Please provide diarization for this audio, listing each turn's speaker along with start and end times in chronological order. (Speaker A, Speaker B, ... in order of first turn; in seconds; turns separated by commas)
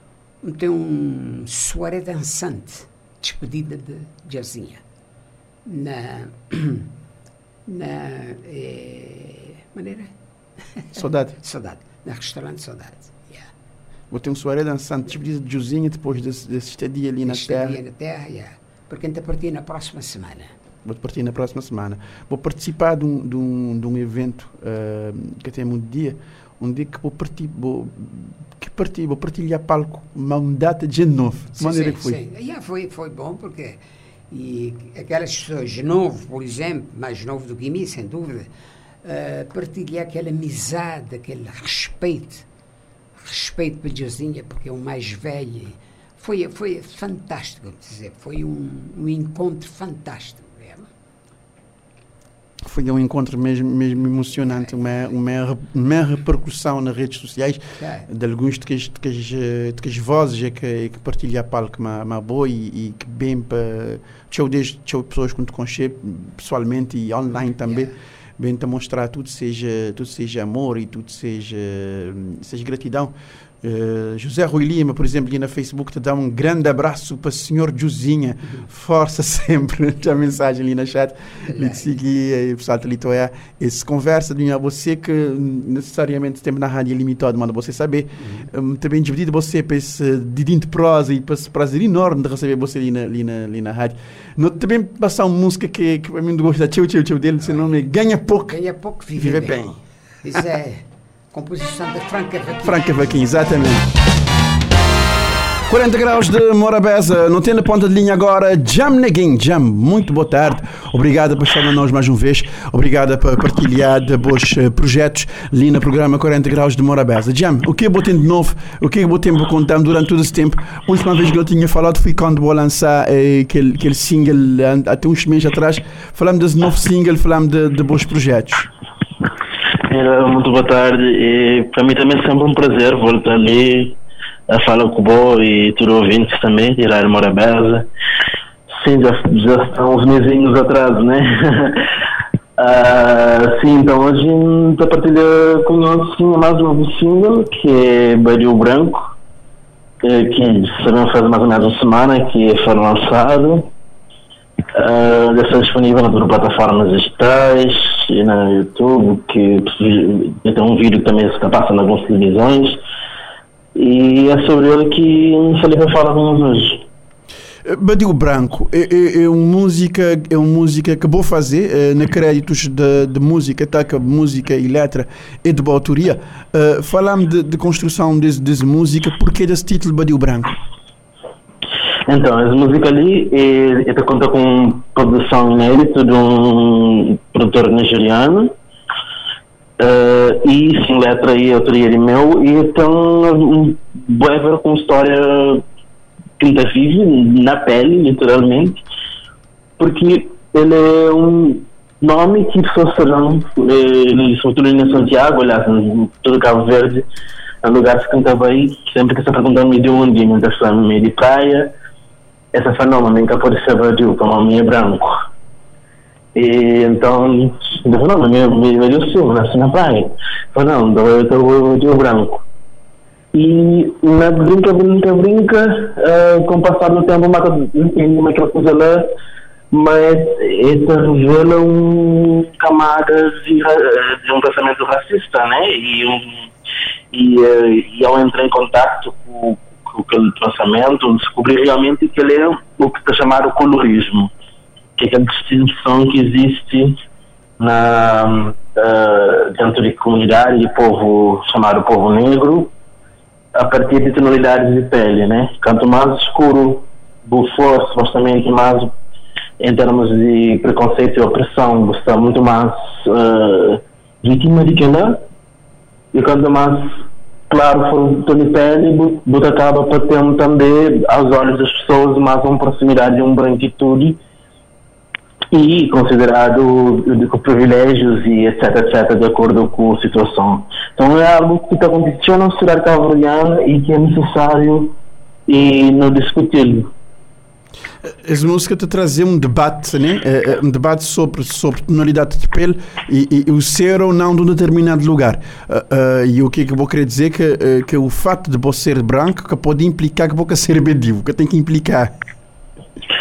Speaker A: 0.4-4.8, Speaker A: 5.7-6.9, Speaker A: 7.7-10.1, Speaker A: 10.7-13.5, Speaker B: 11.0-11.4, Speaker B: 14.1-17.8, Speaker A: 17.2-20.5, Speaker B: 20.9-32.2, Speaker A: 31.6-38.5, Speaker A: 39.0-42.5, Speaker A: 43.2-50.9, Speaker B: 52.6-98.6, Speaker A: 57.8-58.1, Speaker A: 67.6-67.9, Speaker A: 81.5-81.9, Speaker A: 88.2-88.5, Speaker A: 98.5-102.9, Speaker B: 99.2-99.8, Speaker B: 102.6-103.9, Speaker B: 105.7-128.7, Speaker C: 129.9-134.0, Speaker C: 134.5-137.9, Speaker C: 138.7-141.8, Speaker C: 142.6-149.1, Speaker C: 150.0-153.7, Speaker C: 154.8-162.8, Speaker C: 163.8-166.8, Speaker B: 167.7-180.6, Speaker C: 182.1-188.5, Speaker C: 189.8-195.7, Speaker C: 196.4-198.8, Speaker C: 199.8-207.1, Speaker C: 207.6-211.7, Speaker C: 212.5-215.2, Speaker C: 216.3-222.4, Speaker C: 223.3-229.1, Speaker C: 229.7-236.5, Speaker C: 237.1-244.3, Speaker C: 245.0-247.0, Speaker C: 247.6-252.7, Speaker C: 253.6-258.9, Speaker C: 259.6-265.2, Speaker C: 266.1-274.2, Speaker C: 275.5-284.9, Speaker C: 285.5-286.9, Speaker B: 288.1-302.1